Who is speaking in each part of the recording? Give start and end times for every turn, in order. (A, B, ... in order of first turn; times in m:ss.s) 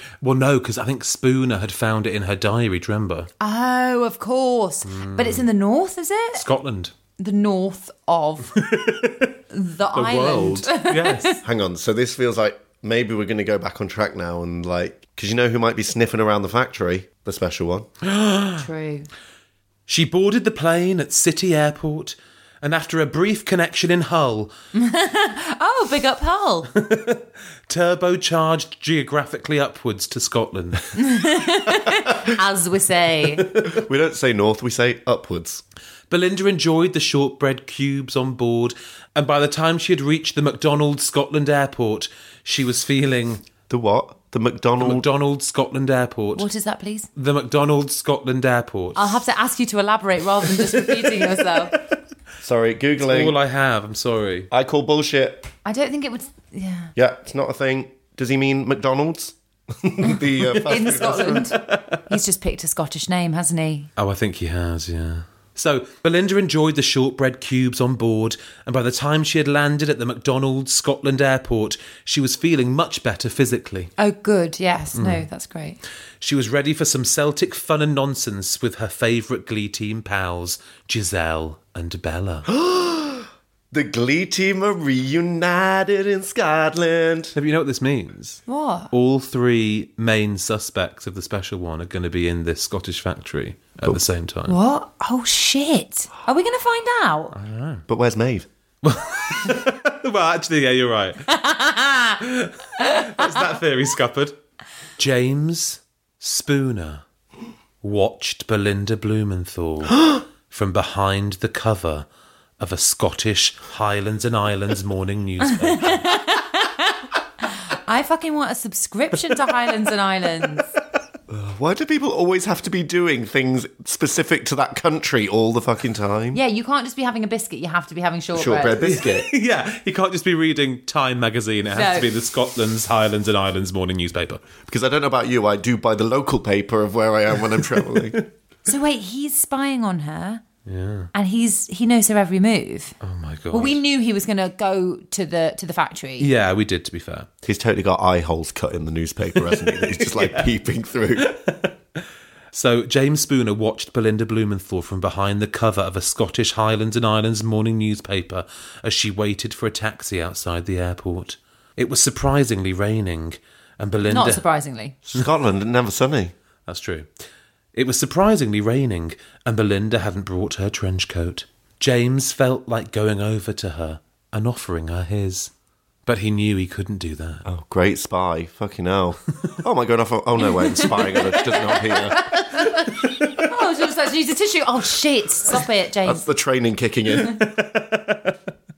0:00.2-0:03.3 A
0:03.4-0:06.4 B
0:04.8-0:05.4 A
0:06.4-0:06.9 A
0:07.2-0:08.6 B
0:08.6-0:09.3 A
0:09.5-0:11.4 B
0:09.9-0:11.4 A
0:11.4-0:17.9 C
0:18.0-0:18.6 A
0:18.6-0:19.1 B
0:19.9-0:24.5 A
0:24.7-0:26.7 B
0:26.7-0:30.9 A
0:31.0-0:33.5 B
0:33.6-0:35.6 C
0:36.1-0:43.4 A
0:43.7-0:45.0 C
0:44.8-0:46.5 A
0:46.4-0:47.1 B
0:47.2-0:49.2 A
0:49.0-0:51.7 B
0:50.5-0:51.0 A
0:52.4-0:53.4 C
0:53.0-0:54.5 A
0:54.5-0:55.5 C
0:55.6-0:56.9 B
0:57.0-1:01.6 C
1:00.5-1:02.0 A
1:00.7-1:03.9 B
1:04.0-1:13.9 A
1:14.0-1:15.8 B
1:15.0-1:15.2 A
1:16.2-1:22.5 A
1:22.5-1:27.3 C
1:27.4-1:34.6 A
1:28.5-1:28.9 B
1:34.5-1:37.3 B
1:37.3-1:37.8 A
1:37.9-1:38.5 C
1:38.8-1:41.3 A
1:41.3-1:42.2 B
1:42.2-1:44.4 A
1:42.8-1:43.3 B
1:45.0-1:47.0 A
1:47.8-1:52.1 A
1:52.6-1:56.1 A
1:55.4-2:00.7 B
2:01.3-2:06.4 C
2:06.3-2:08.8 B
2:08.3-2:09.3 C
2:08.8-2:14.4 A
2:11.7-2:12.1 B
2:14.7-2:18.2 C
2:18.7-2:20.4 B
2:20.7-2:21.1 A
2:21.1-2:23.0 B
2:23.0-2:23.8 A
2:23.5-2:26.3 B
2:26.2-2:27.3 A
2:27.4-2:31.4 C
2:29.4-2:30.5 A
2:31.2-2:32.0 A
2:32.5-2:44.4 A
2:44.1-2:45.0 B
2:45.0-2:46.3 C
2:46.7-2:47.1 A
2:47.7-2:55.5 A
2:56.1-2:57.4 A
2:57.4-3:02.4 C
3:00.8-3:06.3 B
3:06.0-3:07.4 C
3:07.1-3:08.4 A